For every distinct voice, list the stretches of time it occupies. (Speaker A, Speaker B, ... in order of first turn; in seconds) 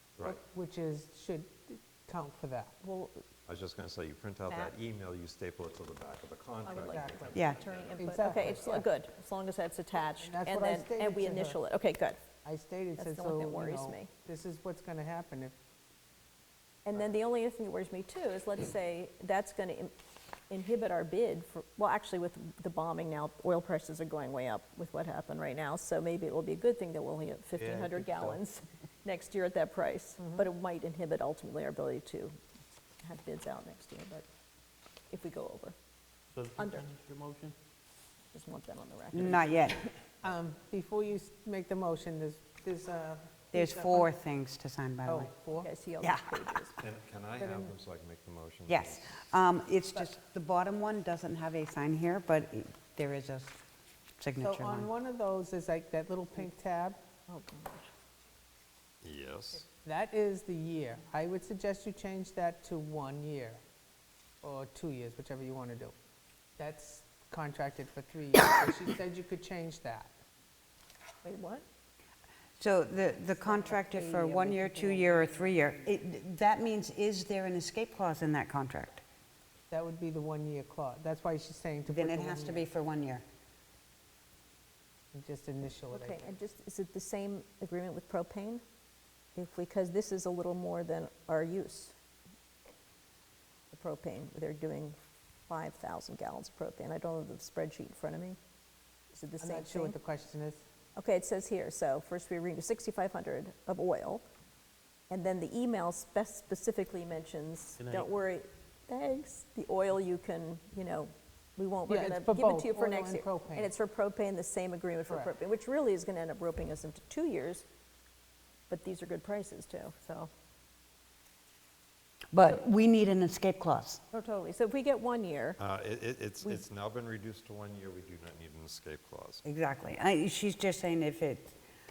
Speaker A: 0.2-2.8, 6.8-8.8, 10.2-11.6, 12.4-15.5, 40.2-44.1, 45.0-45.7, 47.4-47.7, 54.4-57.0, 59.7-63.6, 64.4-65.9, 66.6-70.1, 79.7-82.7, 85.1-86.3, 99.4-100.6, 111.9-113.7
Speaker B: 2.8-3.2, 4.5-4.7, 6.6-12.3, 13.0-14.1, 16.8-19.9, 20.5-32.4, 33.0-34.2, 35.1-35.7, 36.5-36.9, 38.3-40.0, 45.6-46.8, 57.3-57.9, 71.2-71.6, 73.3-75.1, 85.9-88.6, 89.3-92.0, 93.7-95.0, 95.5-98.4, 99.1-100.0, 101.0-104.2, 105.1-117.6, 118.7-120.3, 124.1-125.6
Speaker C: 3.5-7.9, 46.8-49.2, 59.0-59.6, 125.6-129.4
Speaker D: 7.3-7.6, 39.1-39.8, 43.5-45.3, 46.0-46.5, 48.7-53.6, 54.2-54.9, 72.6-79.0, 81.8-83.2, 122.3-124.0, 129.4-131.6
Speaker E: 27.6-28.4, 36.3-37.5, 107.8-108.1